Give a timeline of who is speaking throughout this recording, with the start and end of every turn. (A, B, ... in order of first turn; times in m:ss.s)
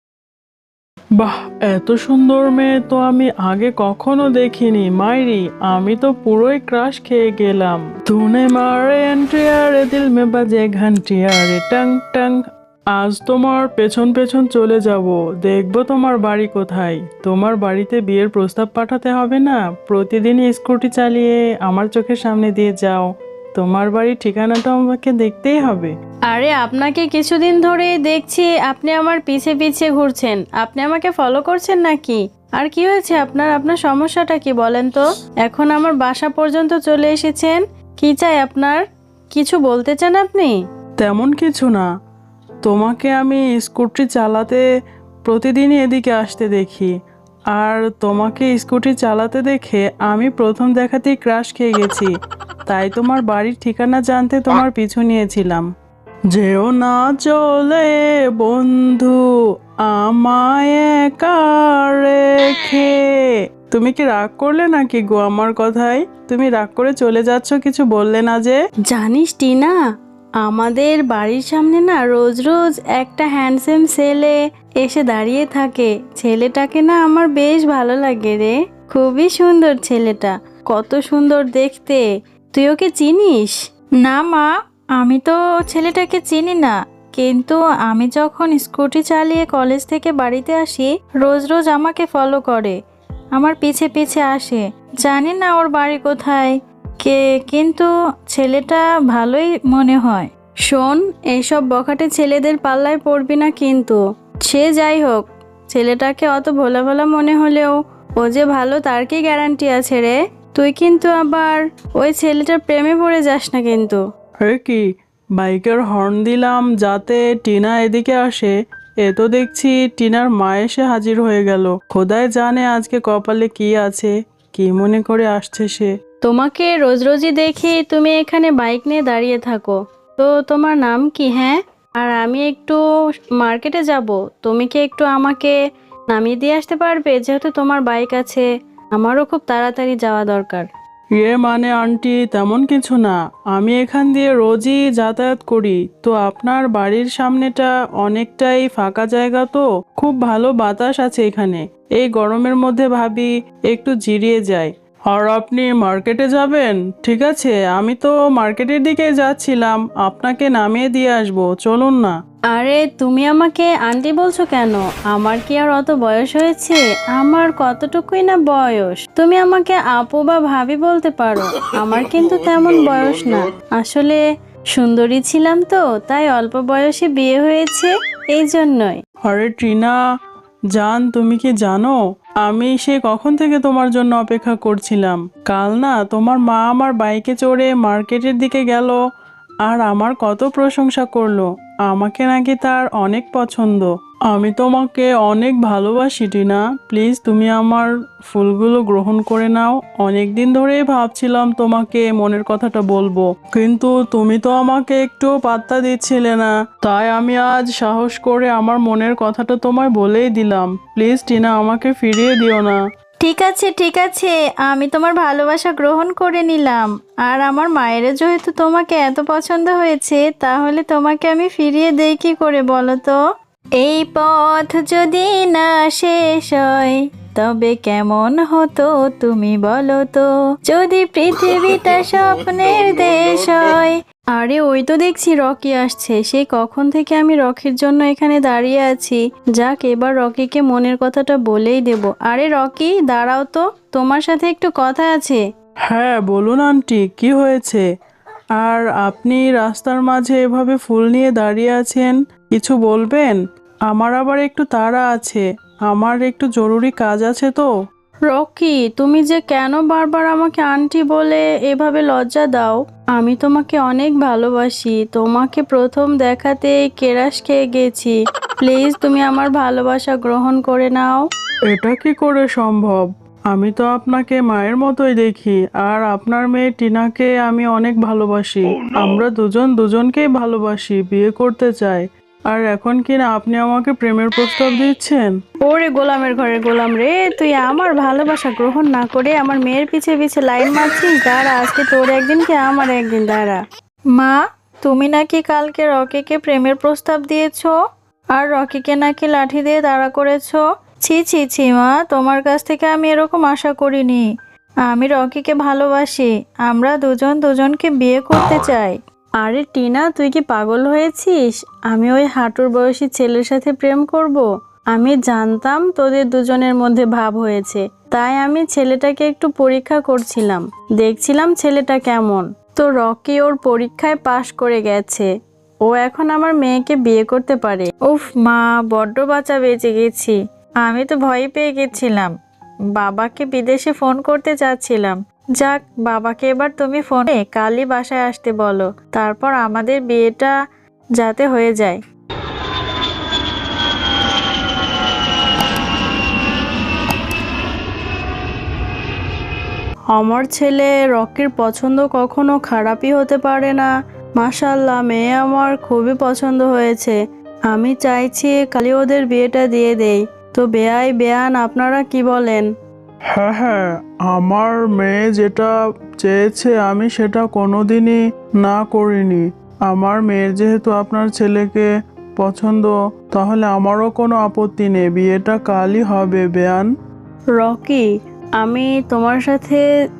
0:01.2-0:12.4 A
0:12.9-0:25.9 A
0:26.3-0:38.8 B
0:39.3-0:40.5 B
0:41.0-0:41.9 A
0:42.6-0:44.6 A
0:45.3-0:46.9 A
0:47.5-0:52.1 A
0:52.6-0:55.7 A
0:56.3-0:59.2 A
0:59.9-1:03.1 A
1:03.7-1:08.6 A
1:08.9-1:09.8 B
1:10.4-1:32.8 B
1:33.4-1:54.0 B
1:54.4-1:54.8 A
1:55.4-2:05.9 A
2:06.2-2:12.8 B
2:13.4-2:15.6 B
2:16.1-2:20.7 B
2:21.2-2:42.2 A
2:42.5-2:54.2 B
2:54.7-2:59.0 B
2:59.2-3:00.0 A
3:00.7-3:09.0 A
3:09.6-3:32.8 A
3:33.2-3:43.2 B
3:43.8-4:05.4 B
4:05.9-4:07.8 A
4:08.6-4:13.4 A
4:13.9-4:17.7 A
4:18.3-4:31.2 B
4:31.7-4:45.3 A
4:45.6-4:53.6 B
4:54.1-4:57.7 B
4:58.4-5:04.2 B
5:04.9-5:25.3 B
5:25.9-5:32.3 B
5:33.0-5:40.5 B
5:41.2-5:42.0 B
5:50.2-5:57.2 B
5:57.7-6:02.7 B
6:03.3-6:11.9 A
6:12.4-6:16.9 A
6:17.6-6:18.1 B
6:18.6-6:19.9 B